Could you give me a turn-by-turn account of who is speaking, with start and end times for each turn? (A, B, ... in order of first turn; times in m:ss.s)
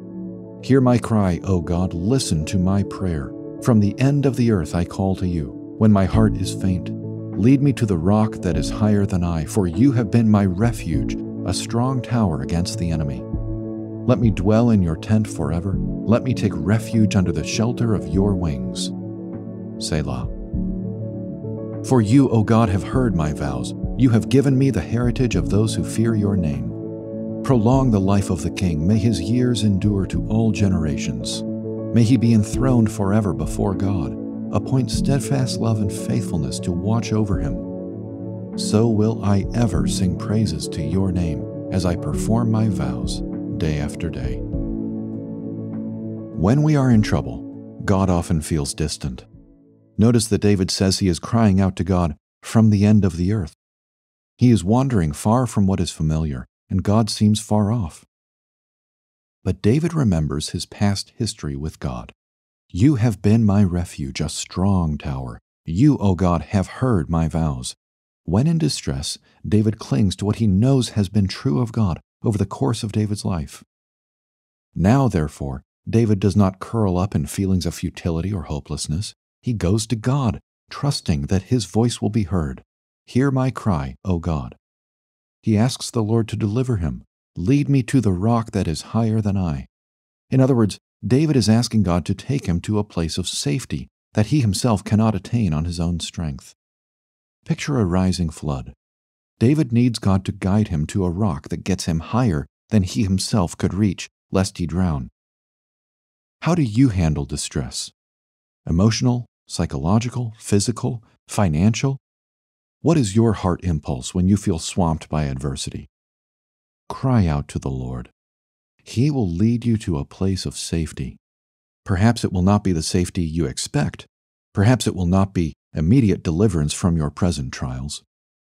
0:00.6-0:13.2 A
0:14.0-0:18.9 A
0:19.8-0:20.3 A
0:21.8-0:26.8 A
0:27.4-0:37.7 A
0:38.6-0:44.4 A
0:46.3-0:49.3 A
0:50.0-0:53.6 A
0:54.4-0:58.0 A
0:59.4-1:02.1 A
1:02.7-1:13.6 A
1:14.7-1:24.6 A
1:25.4-1:29.7 A
1:30.3-1:36.6 A
1:37.4-1:38.7 A
1:39.4-1:45.1 A
1:46.4-1:47.9 A
1:48.6-1:52.0 A
1:52.8-1:55.9 A
1:56.9-1:58.1 A
1:58.8-2:01.2 A
2:01.8-2:08.0 A